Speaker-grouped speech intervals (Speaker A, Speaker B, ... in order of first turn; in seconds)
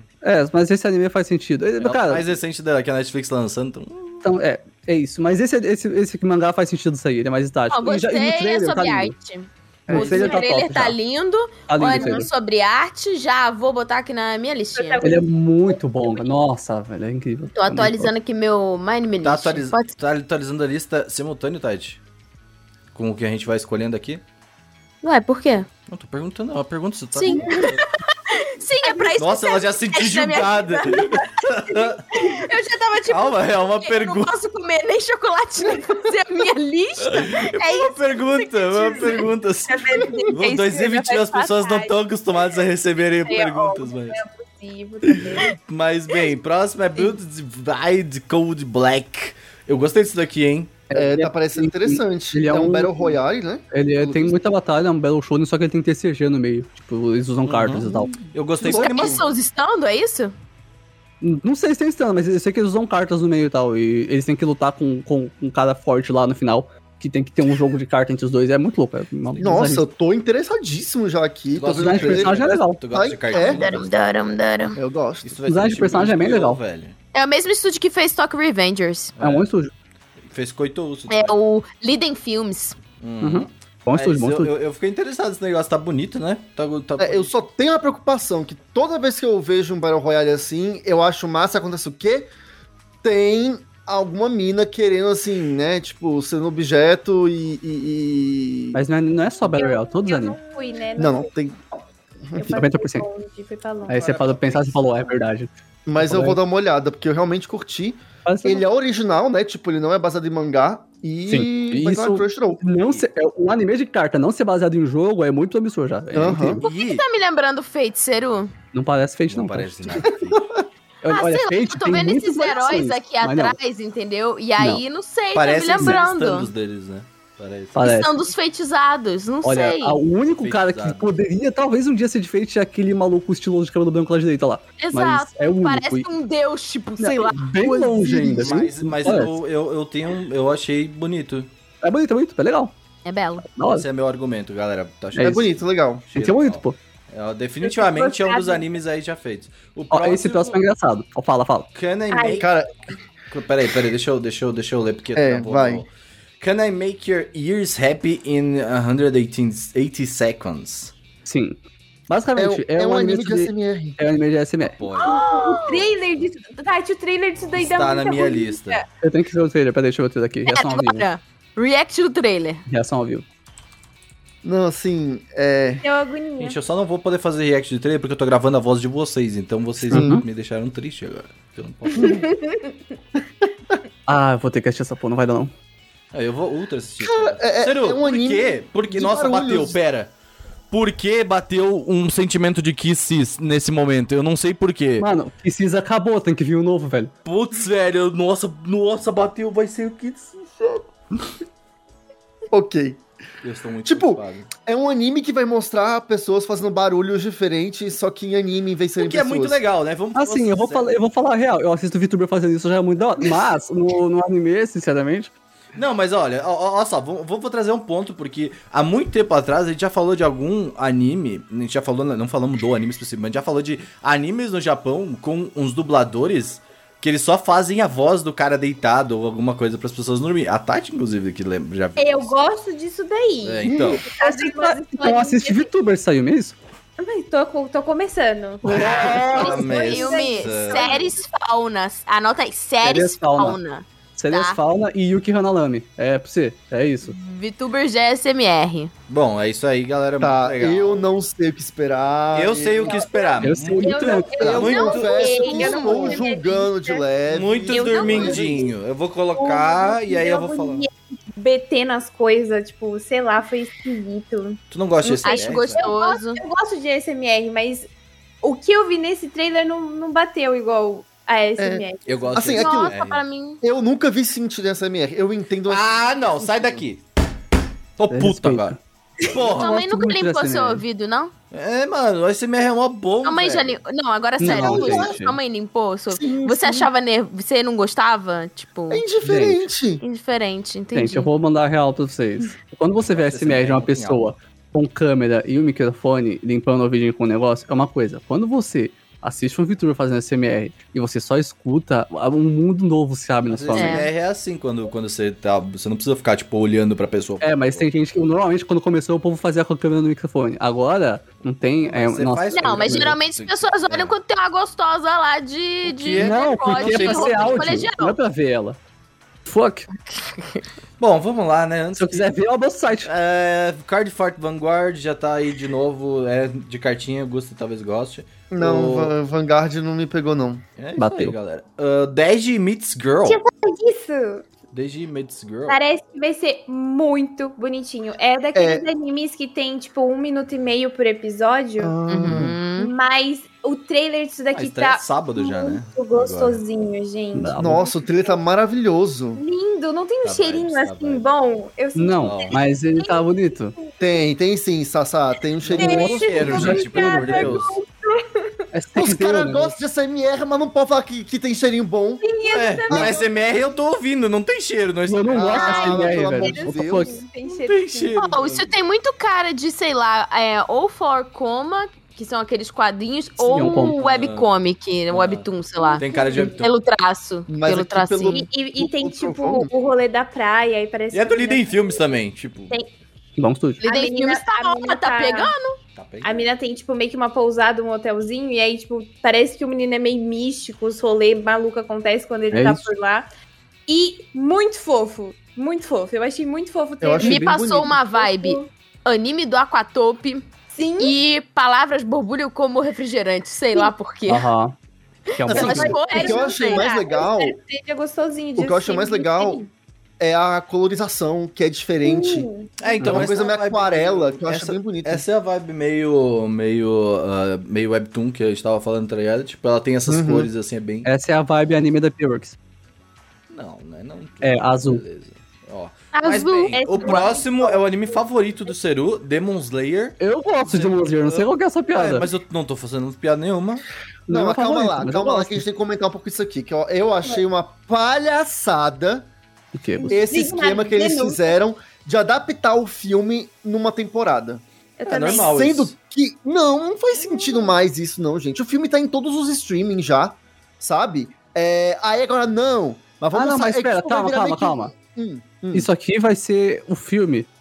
Speaker A: 0.2-2.3, 4.2-9.1, 9.9-11.0, 11.7-12.3, 15.0-18.1, 50.9-53.2, 53.7-58.1, 61.2-69.9, 71.8-72.8, 75.5-76.6, 79.2-79.7, 83.2-84.5, 98.7-100.4, 102.5-103.1, 103.9-106.4, 108.3-108.6, 111.3-116.6, 118.7-120.1, 121.0-123.6, 127.8-128.1, 129.4-136.1, 137.0-139.4, 141.8-142.7, 143.5-143.9, 145.1-145.4, 146.1-146.8, 149.9-151.7, 161.2-164.9, 169.0-171.1, 172.7-173.2, 179.9-180.2, 184.1-185.5, 195.0-197.1, 210.2-215.3, 234.2-236.6, 238.7-239.1, 242.8-243.6, 244.2-247.2, 253.4-254.6, 278.1-278.8, 279.5-280.8, 284.4-285.4, 289.2-289.7, 290.9-304.1, 307.4-313.2, 316.2-318.8, 319.4-319.9, 322.0-323.1, 331.0-331.4, 347.4-347.8, 351.9-353.8, 355.7-357.6, 358.7-359.8, 365.1-367.1, 373.4-374.0, 383.4-383.9, 392.5-392.9, 404.3-404.8, 405.3-406.0, 413.0-413.3, 421.1-422.6, 424.4-425.0, 430.2-432.3, 434.3-435.6, 439.7-440.2, 453.3-454.9, 455.7-457.5
Speaker B: 1.8-4.3, 19.2-22.0, 22.9-24.2, 25.9-27.8, 29.2-32.1, 33.1-34.3, 37.0-44.2, 45.1-50.8, 57.5-59.2, 69.4-69.7, 71.5-73.9, 75.2-77.0, 79.2-79.5, 80.3-81.4, 83.0-87.3, 104.0-104.7, 116.6-117.0, 119.3-120.4, 125.3-127.9, 130.4-131.1, 138.0-141.5, 143.7-150.6, 151.7-152.5, 153.3-160.9, 164.7-165.9, 167.5-168.8, 176.4-182.3, 186.1-190.1, 190.7-195.1, 197.2-200.9, 203.4-204.5, 209.0-210.9, 215.8-232.4, 233.4-234.1, 238.7-241.1, 249.1-251.0, 252.3-256.1, 257.3-260.9, 264.7-265.9, 272.1-273.2, 275.7-277.0, 278.0-279.7, 281.5-283.8, 284.5-285.1, 293.0-294.3, 303.5-307.9, 311.8-314.1, 315.8-317.9, 321.0-322.3, 323.0-329.1, 330.8-333.4, 334.7-335.8, 344.5-346.6, 350.2-351.3, 352.2-352.6, 355.7-357.8, 362.5-365.8, 367.5-368.7, 373.6-374.5, 375.1-375.5, 376.0-376.7, 381.1-382.8, 386.0-386.4, 405.5-406.0, 412.8-421.1, 423.5-433.9, 445.1-445.9
Speaker C: 7.7-15.0, 17.5-19.9, 25.0-25.7, 27.1-31.3, 32.1-39.3, 58.6-60.3, 73.3-74.8, 77.1-79.1, 81.1-82.8, 116.6-118.5, 121.0-126.5, 127.8-130.0, 134.8-137.5, 143.1-143.5, 165.0-165.8, 170.5-172.6, 238.7-244.6, 247.0-248.9, 254.6-256.2, 265.2-266.4, 272.6-273.6, 279.4-281.3, 283.2-289.0, 290.0-291.3, 303.7-304.1, 312.5-318.2, 320.1-320.6, 342.1-342.9, 368.2-378.5, 383.8-385.8, 397.2-404.5, 405.5-406.9, 426.1-427.3
Speaker D: 9.9-10.4, 50.9-54.4, 58.6-59.2, 69.4-72.4, 72.9-73.7, 74.8-75.4, 87.0-92.3, 93.0-98.8, 101.0-101.6, 102.3-102.5, 105.9-112.6, 116.1-116.6, 137.6-138.7, 145.2-146.1, 152.4-152.7, 155.2-155.8, 162.4-164.0, 174.4-175.8, 179.8-180.2, 187.0-189.8, 202.5-203.0, 203.8-209.6, 233.7-234.0, 250.2-253.1, 254.4-258.6, 271.6-273.0, 273.6-276.8, 284.5-285.1, 286.1-286.9, 288.9-290.0, 328.5-330.6, 338.6-338.9, 341.8-342.6, 347.6-349.4, 354.0-356.8, 359.0-362.2, 362.9-363.2, 365.3-367.1, 377.5-379.7, 397.0-398.0, 405.6-407.6, 408.6-409.6, 410.2-415.3, 420.1-420.5, 434.3-439.3, 440.1-444.6, 445.1-455.9
Speaker E: 14.8-16.2, 27.3-27.8, 28.8-29.1, 31.0-31.3, 39.7-42.0, 43.2-45.5, 99.5-101.3, 102.3-104.2, 147.6-148.7, 152.1-152.4, 165.0-168.9, 175.8-176.6, 182.0-182.7, 232.0-235.7, 237.0-241.2, 252.8-257.1, 257.7-258.7, 259.4-267.9, 268.4-272.5, 333.2-334.4, 335.7-348.4, 349.4-353.2, 355.7-358.5, 362.2-363.3, 365.6-368.3, 375.8-376.6, 378.3-382.1, 383.8-385.5, 386.2-393.3, 393.9-398.7, 400.7-401.2, 405.7-409.7, 412.0-412.9, 426.7-428.2, 440.0-441.5, 445.0-445.6, 447.2-447.7